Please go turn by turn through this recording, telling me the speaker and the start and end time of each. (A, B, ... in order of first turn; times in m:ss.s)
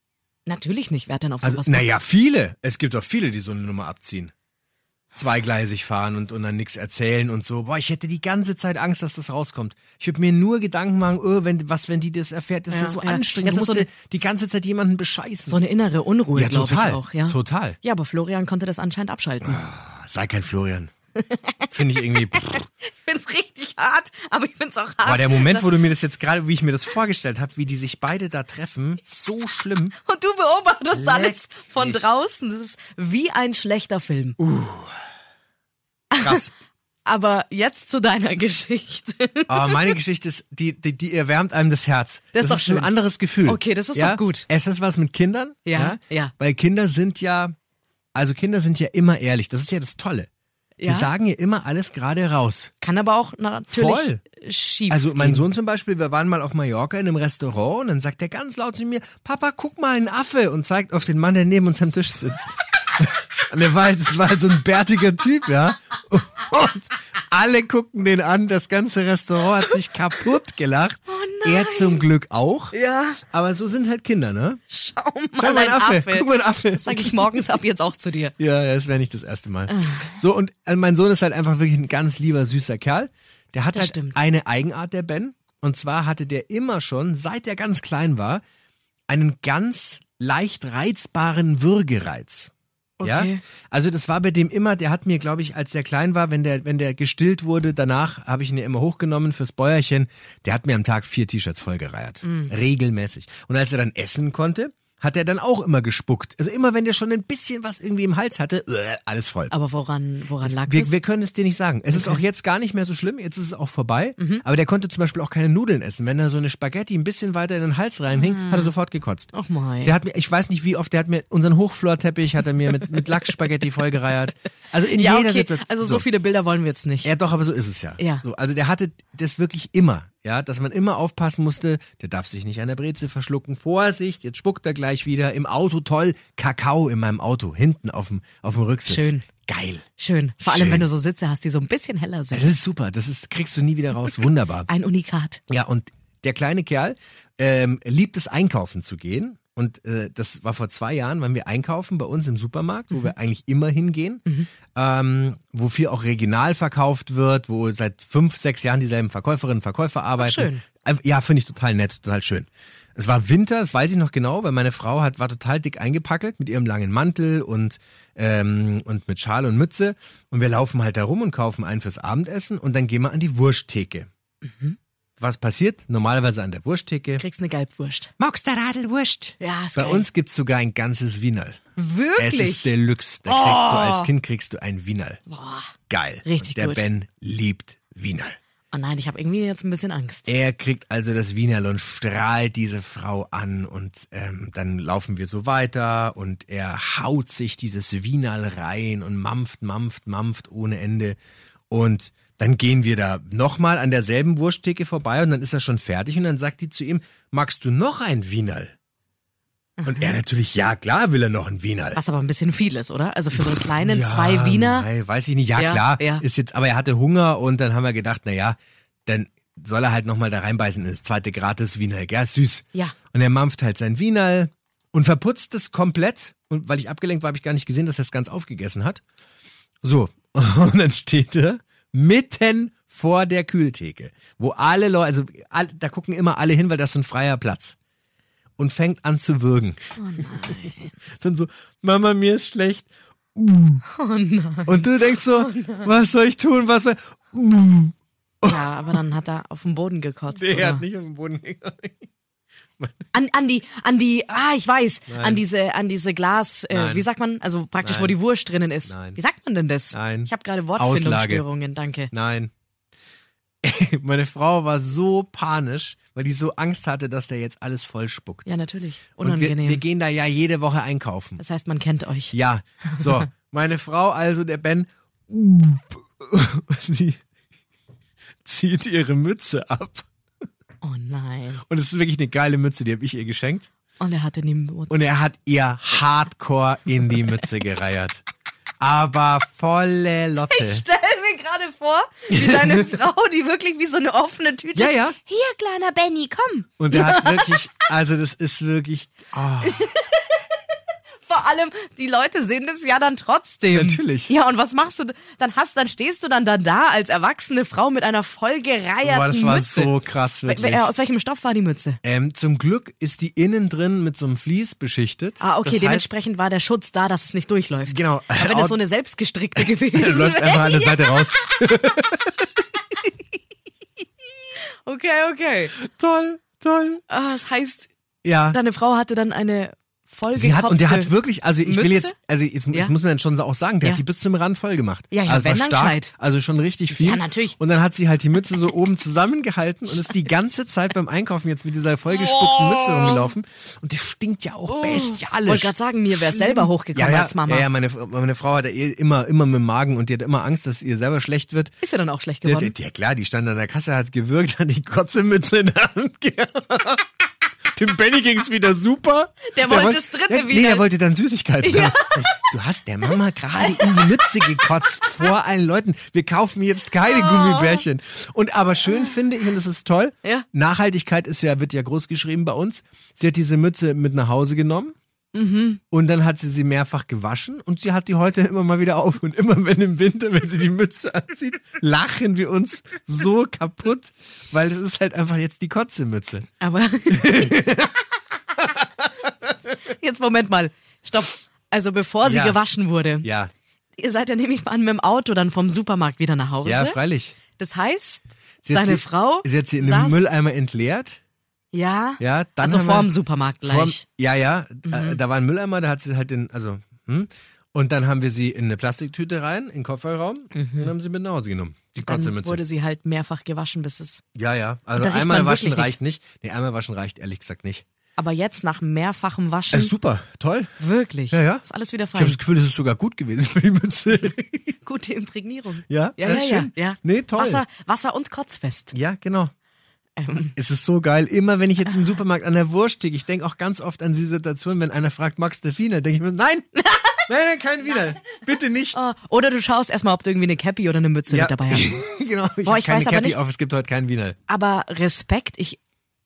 0:00.4-0:01.9 A
0:01.4-0:04.3 B
0:05.1-0:15.6 B
0:12.7-0:14.0 A
0:15.5-0:19.6 A
0:16.3-0:17.8 B
0:19.4-0:20.9 B
0:21.2-0:25.8 A
0:21.7-0:22.6 B
0:25.0-0:30.0 B
0:30.0-0:34.4 A
0:30.9-0:32.0 B
0:34.4-0:34.9 B
0:36.1-0:36.4 A
0:36.2-0:36.5 B
0:37.0-0:39.9 A
0:39.5-0:47.5 B
0:42.3-0:42.9 A
0:43.4-0:44.5 A
0:45.6-0:46.3 A
0:48.1-0:50.3 B
0:50.8-0:51.1 A
0:50.8-0:52.7 B
0:52.8-0:55.5 A
0:53.7-0:54.2 B
0:54.9-1:14.6 B
1:11.1-1:12.0 A
1:12.7-1:13.2 A
1:14.7-1:18.3 A
1:15.4-1:17.4 B
1:18.4-1:28.4 B
1:19.7-1:20.1 A
1:23.7-1:24.2 A
1:29.1-1:32.5 B
1:33.0-1:33.4 A
1:33.0-1:49.5 B
1:42.2-1:42.5 A
1:49.5-1:51.0 A
1:50.4-1:59.3 B
1:51.9-1:52.2 A
1:54.2-1:54.4 A
1:58.1-1:58.7 A
1:59.3-1:59.9 A
1:59.8-2:06.0 B
2:04.9-2:07.1 A
2:07.0-2:19.8 B
2:08.0-2:08.2 A
2:18.9-2:19.2 A
2:20.0-2:22.5 A
2:20.4-2:20.9 B
2:22.3-2:24.7 B
2:24.7-2:25.4 A
2:25.5-2:54.1 B
2:40.2-2:40.6 A
2:54.4-2:54.8 A
2:55.2-2:57.2 B
2:57.2-2:58.1 A
2:58.2-3:01.6 B
2:59.4-3:00.0 A
3:01.8-3:02.7 A
3:02.2-3:05.2 B
3:03.3-3:04.1 A
3:05.3-3:05.7 A
3:05.9-3:08.4 B
3:06.2-3:06.8 A
3:08.7-3:10.3 A
3:10.3-3:21.2 B
3:21.7-3:28.7 B
3:29.8-3:30.2 A
3:29.8-3:32.0 B
3:31.9-3:34.9 A
3:33.3-3:49.0 B
3:35.5-3:36.2 A
3:49.8-3:57.8 B
3:58.6-4:03.8 B
4:00.0-4:00.9 A
4:03.9-4:04.7 A
4:04.7-4:08.9 B
4:05.3-4:05.9 A
4:08.4-4:10.8 A
4:10.3-4:12.0 B
4:12.8-4:13.0 B
4:13.1-4:22.1 A
4:15.1-4:15.4 B
4:16.7-4:17.1 B
4:17.8-4:18.2 B
4:18.9-4:19.2 B
4:19.9-4:21.4 B
4:22.1-4:22.5 B
4:23.6-4:28.5 B
4:28.4-4:29.8 A
4:29.2-4:31.4 B
4:31.4-4:32.3 A
4:32.3-4:37.2 B
4:38.4-4:40.1 B
4:40.8-4:41.6 A
4:41.6-4:43.7 B
4:44.0-4:44.9 A
4:44.9-4:48.2 B
4:48.8-4:50.8 B
4:50.5-4:57.6 A
4:52.3-4:53.0 B
4:54.7-4:55.2 B
4:56.8-4:59.9 B
4:59.6-5:00.4 A
5:01.2-5:09.9 A
5:03.7-5:04.3 B
5:09.0-5:10.9 B
5:10.4-5:12.0 A
5:12.0-5:16.1 B
5:15.4-5:21.2 A
5:17.8-5:18.8 B
5:19.6-5:22.4 B
5:24.8-5:25.8 A
5:25.8-5:27.0 B
5:27.1-5:27.9 A
5:28.2-5:28.6 B
5:28.5-5:31.1 A
5:30.3-5:45.7 B
5:31.6-5:32.1 A
5:35.1-5:36.1 A
5:36.9-5:37.6 A
5:42.1-5:43.3 A
5:44.7-5:47.7 A
5:46.3-5:51.7 B
5:51.8-5:52.7 A
5:52.4-5:57.1 B
5:57.7-6:14.9 B
5:59.5-6:00.9 A
6:01.6-6:02.4 A
6:03.7-6:05.1 A
6:07.0-6:07.8 A
6:15.3-6:15.8 A
6:15.9-6:26.5 B
6:26.6-6:27.4 A
6:27.1-6:28.0 B
6:29.8-6:33.3 A
6:32.2-6:32.6 B
6:33.2-6:33.5 B
6:34.0-6:37.0 A
6:36.6-6:37.4 B
6:37.6-6:40.3 A
6:38.6-6:41.2 B
6:41.7-6:44.0 A
6:42.2-6:43.1 B
6:43.6-6:52.6 B
6:44.8-6:45.2 A
6:50.5-6:50.9 A
6:52.0-6:54.2 A
6:54.3-6:57.8 B
6:55.0-6:55.9 A
6:58.2-6:59.9 A
6:59.7-7:00.8 B
7:00.8-7:02.4 A
7:01.3-7:04.7 B
7:04.8-7:08.9 A
7:05.9-7:07.6 B
7:08.9-7:09.5 B
7:10.2-7:10.5 A
7:10.5-7:19.0 B
7:18.9-7:22.0 A
7:21.3-7:24.4 B
7:22.6-7:23.4 A
7:24.5-7:25.8 A